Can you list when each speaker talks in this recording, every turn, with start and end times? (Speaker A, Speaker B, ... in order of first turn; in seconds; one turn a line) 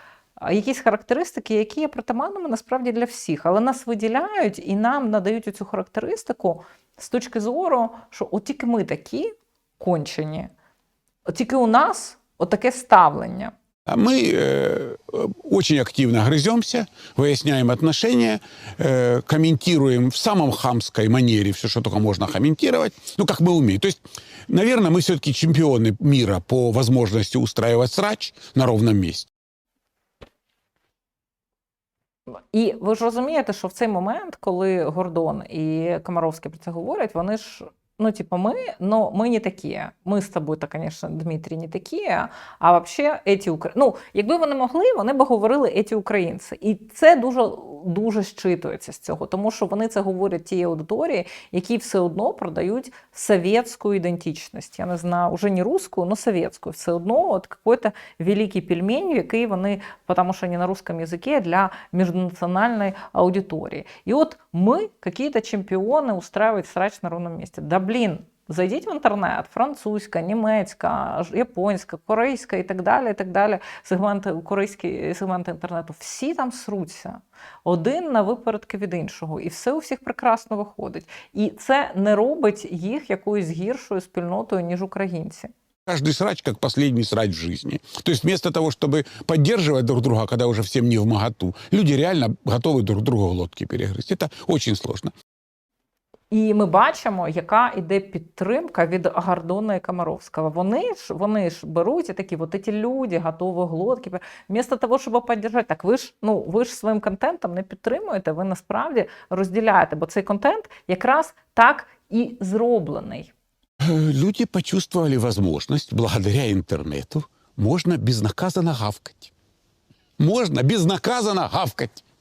Speaker A: 0.4-10.5
Speaker A: 11.3-13.5
Speaker B: 13.9-29.3
Speaker A: 32.5-85.5
Speaker B: 85.9-95.1
Speaker A: 96.3-113.3
Speaker B: 113.8-119.3
Speaker B: 120.2-122.0